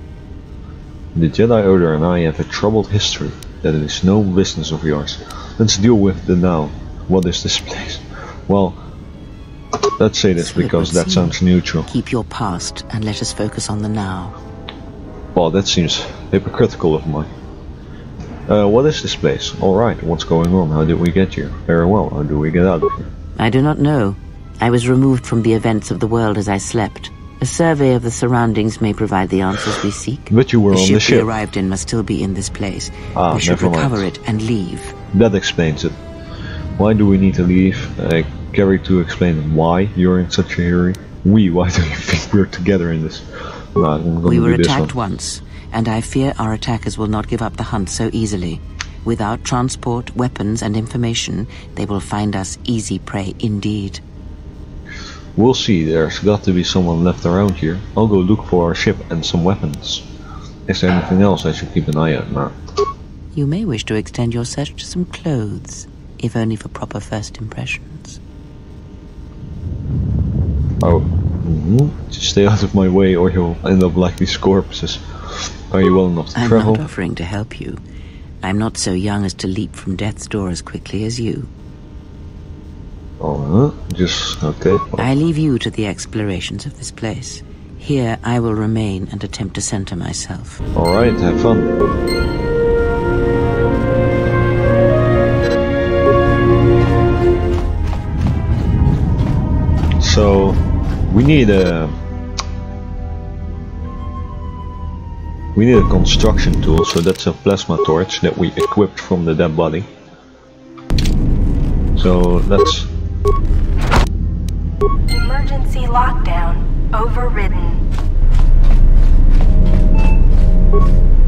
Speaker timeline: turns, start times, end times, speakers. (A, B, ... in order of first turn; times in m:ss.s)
0:01.1-0:08.8 A
0:09.8-0:11.9 A
0:10.4-0:14.3 B
0:15.3-0:17.3 A
0:18.5-0:23.1 A
0:23.4-0:34.9 B
0:30.3-0:31.3 A
0:33.1-0:34.1 A
0:35.1-0:36.0 A
0:36.8-0:44.9 A
0:44.2-0:54.0 B
0:55.4-1:00.0 A
1:00.7-1:02.5 A
1:03.3-1:08.2 B
1:10.8-1:16.8 A
1:16.4-1:17.8 B
1:18.4-1:21.5 B
1:23.2-1:25.1 A
1:25.0-1:30.6 B
1:30.7-1:31.7 A
1:40.0-1:41.9 A
1:45.5-1:49.9 A
1:52.0-1:52.9 A
1:55.1-1:57.8 C